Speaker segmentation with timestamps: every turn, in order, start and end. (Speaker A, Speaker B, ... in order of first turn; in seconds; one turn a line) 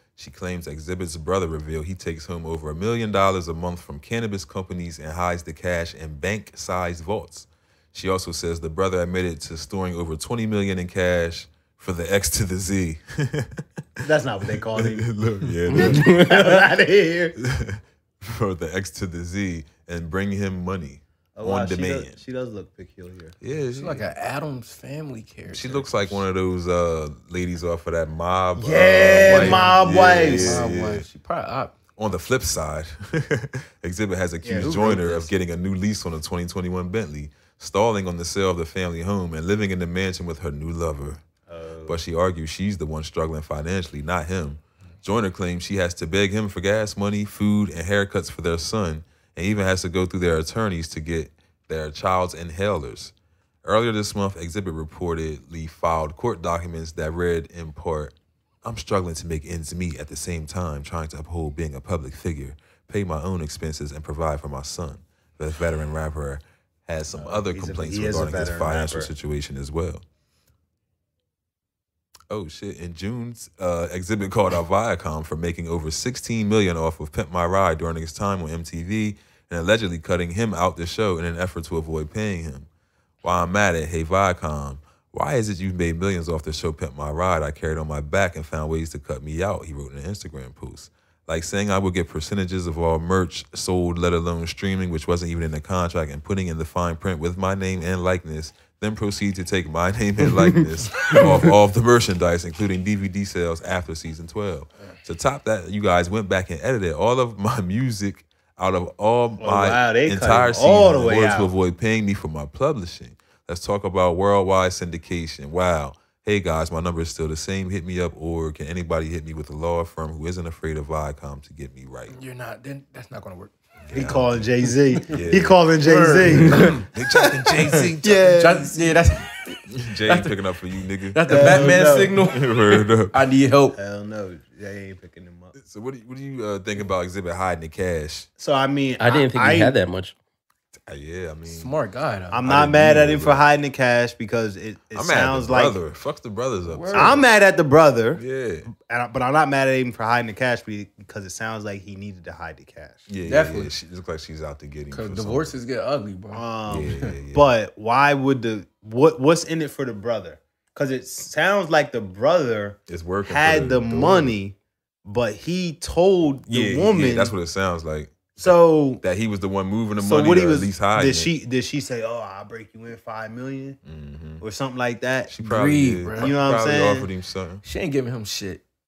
Speaker A: 0.2-14.0
Speaker B: 14.0-15.1
Speaker A: 14.7-16.1
Speaker B: 15.7-17.4
Speaker C: 15.7-16.6
Speaker A: 17.4-22.2
Speaker B: 21.4-23.4
Speaker A: 23.4-24.1
Speaker D: 23.7-26.2
Speaker A: 25.5-31.1
Speaker B: 28.6-30.7
Speaker D: 29.2-31.8
Speaker A: 32.0-41.2
Speaker B: 34.4-35.3
Speaker B: 41.5-42.0
Speaker A: 41.9-53.1
Speaker A: 53.6-70.0
Speaker B: 67.1-69.1
Speaker A: 72.3-82.7
Speaker A: 83.2-122.2
Speaker B: 109.4-111.5
Speaker D: 122.1-126.9
Speaker A: 123.9-124.3
Speaker B: 123.9-126.9
Speaker A: 125.1-125.6
Speaker A: 126.3-128.4
Speaker B: 127.7-129.0
Speaker D: 127.8-130.4
Speaker A: 129.7-133.2
Speaker D: 131.1-133.8
Speaker B: 131.3-132.2
Speaker B: 133.8-135.6
Speaker A: 135.6-138.3
Speaker B: 138.4-139.8
Speaker C: 139.0-140.2
Speaker A: 140.9-141.7
Speaker D: 141.5-142.4
Speaker B: 142.3-145.8
Speaker A: 142.4-143.4
Speaker A: 144.9-147.3
Speaker D: 146.7-147.2
Speaker B: 146.9-153.1
Speaker A: 148.2-148.7
Speaker A: 153.1-155.6
Speaker D: 153.3-153.7
Speaker D: 154.9-157.1
Speaker B: 156.3-167.3
Speaker A: 156.7-157.5
Speaker A: 162.9-164.4
Speaker A: 166.5-171.3
Speaker B: 168.4-169.0
Speaker B: 170.0-173.8
Speaker A: 173.8-174.4
Speaker B: 174.4-175.3
Speaker A: 175.3-177.6
Speaker D: 175.4-176.3
Speaker B: 176.2-177.1
Speaker D: 177.6-178.6